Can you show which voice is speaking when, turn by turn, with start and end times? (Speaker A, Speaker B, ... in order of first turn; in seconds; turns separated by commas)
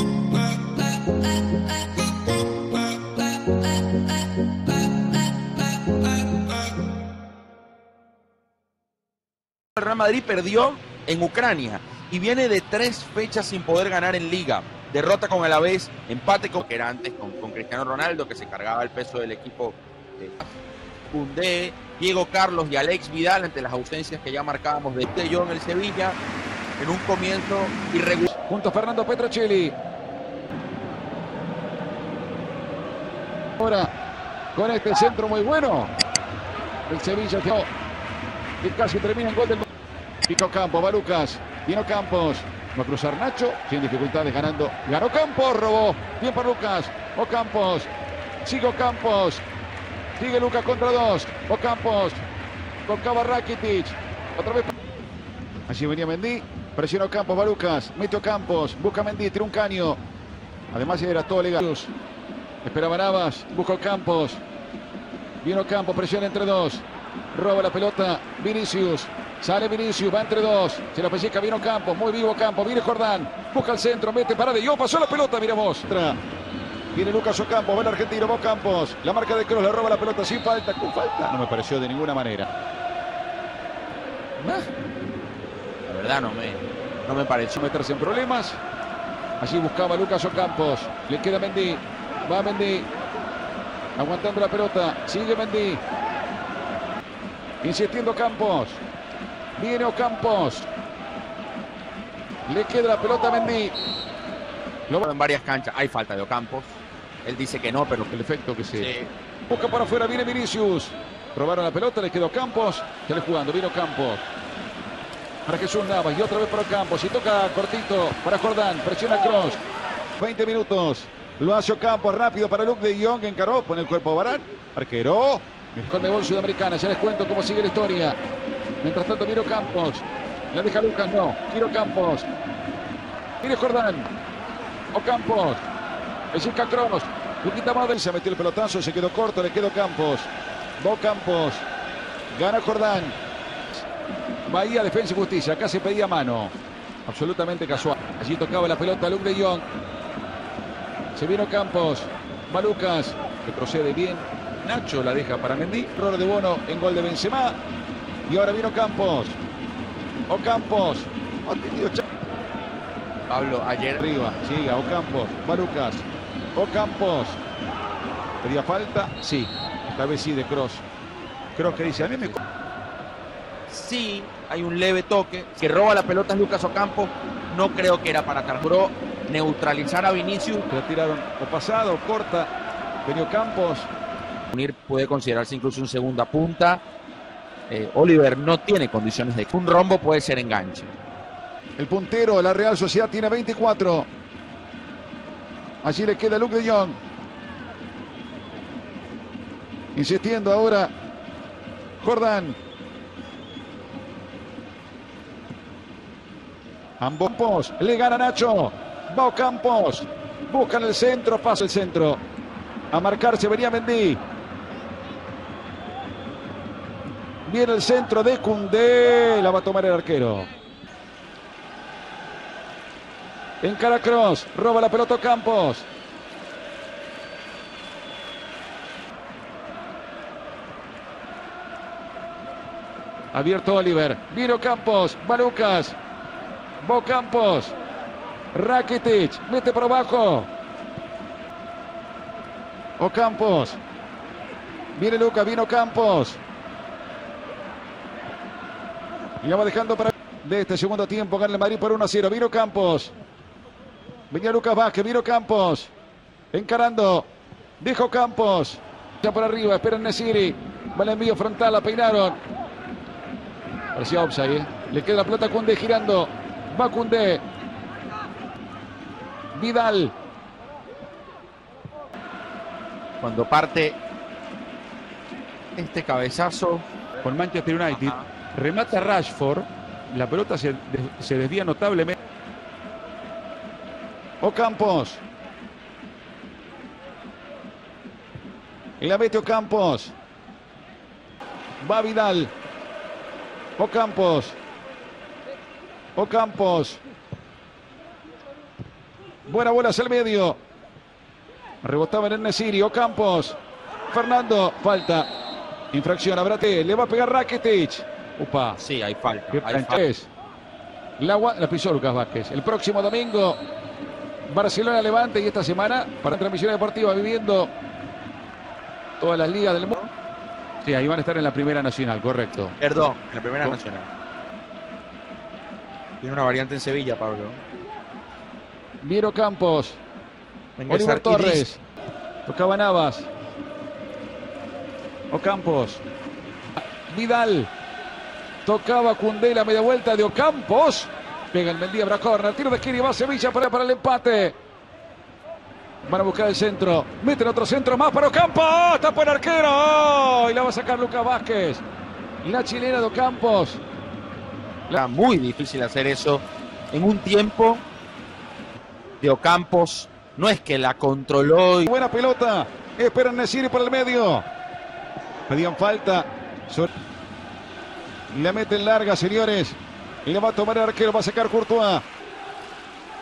Speaker A: 0.3-4.0, Speaker A: 4.9-6.5, Speaker A: 9.8-20.6, Speaker A: 21.1-26.1, Speaker A: 26.8-28.3, Speaker B: 28.3-29.8, Speaker B: 33.6-33.9, Speaker B: 34.5-35.9, Speaker B: 36.9-37.7, Speaker B: 38.6-39.6, Speaker B: 40.2-47.9, Speaker B: 48.4-49.4, Speaker B: 50.2-52.2, Speaker B: 52.9-54.7, Speaker B: 55.7-60.0, Speaker B: 60.7-61.9, Speaker B: 62.6-64.4, Speaker B: 65.4-76.2, Speaker B: 76.9-82.5, Speaker A: 84.4-84.7, Speaker A: 85.9-87.6, Speaker B: 87.5-88.6, Speaker B: 89.4-92.9, Speaker B: 94.0-95.8, Speaker B: 97.6-98.8, Speaker B: 99.6-100.7, Speaker B: 102.5-103.7, Speaker A: 105.0-108.1, Speaker B: 108.1-108.9, Speaker A: 108.7-109.1, Speaker B: 109.5-114.2, Speaker B: 115.5-119.6, Speaker B: 120.2-128.2, Speaker B: 128.8-132.3, Speaker B: 133.4-134.1, Speaker B: 134.9-135.7, Speaker B: 136.3-141.7, Speaker B: 142.3-143.2, Speaker B: 144.4-146.5, Speaker B: 147.1-149.7, Speaker B: 151.2-157.6, Speaker B: 158.3-159.4, Speaker B: 160.3-162.0, Speaker A: 163.3-164.0, Speaker B: 164.0-167.4, Speaker B: 168.4-170.8, Speaker B: 171.5-172.4, Speaker A: 171.7-172.4, Speaker A: 173.7-180.7, Speaker B: 180.7-182.5, Speaker B: 183.0-183.9, Speaker A: 184.5-186.8, Speaker A: 187.7-190.9, Speaker B: 191.8-194.1, Speaker B: 195.8-197.0, Speaker B: 199.9-200.9, Speaker B: 202.0-202.6, Speaker B: 207.0-212.2, Speaker B: 212.9-214.2, Speaker B: 217.4-220.5, Speaker B: 223.6-225.9, Speaker B: 233.3-236.0, Speaker B: 236.8-237.7, Speaker B: 238.5-240.5, Speaker B: 243.0-243.8, Speaker B: 244.9-246.4, Speaker B: 249.4-253.1, Speaker B: 254.3-255.9, Speaker B: 256.5-262.4, Speaker B: 263.9-267.4, Speaker B: 269.5-270.1, Speaker A: 273.2-274.0, Speaker A: 275.8-276.9, Speaker B: 277.2-282.1, Speaker A: 277.9-278.3, Speaker B: 284.4-285.2, Speaker B: 289.0-290.1, Speaker B: 291.8-292.5, Speaker B: 293.8-294.6, Speaker B: 296.1-297.0, Speaker B: 299.4-300.6, Speaker B: 301.8-303.6, Speaker B: 304.1-305.3, Speaker B: 305.9-308.8, Speaker A: 308.8-310.0, Speaker B: 309.5-310.3, Speaker B: 311.2-313.6, Speaker B: 314.5-317.7, Speaker B: 319.2-320.0, Speaker B: 320.8-322.8, Speaker A: 322.8-324.1, Speaker A: 326.2-327.6, Speaker B: 329.0-330.0, Speaker A: 330.8-331.7, Speaker B: 330.9-331.8, Speaker B: 332.4-333.3, Speaker B: 335.3-336.0, Speaker B: 336.9-337.7, Speaker B: 338.6-344.6, Speaker B: 346.0-351.8, Speaker B: 352.4-353.8, Speaker A: 354.9-357.8, Speaker A: 359.2-361.9, Speaker B: 361.9-364.5, Speaker B: 365.5-366.9, Speaker B: 368.3-372.1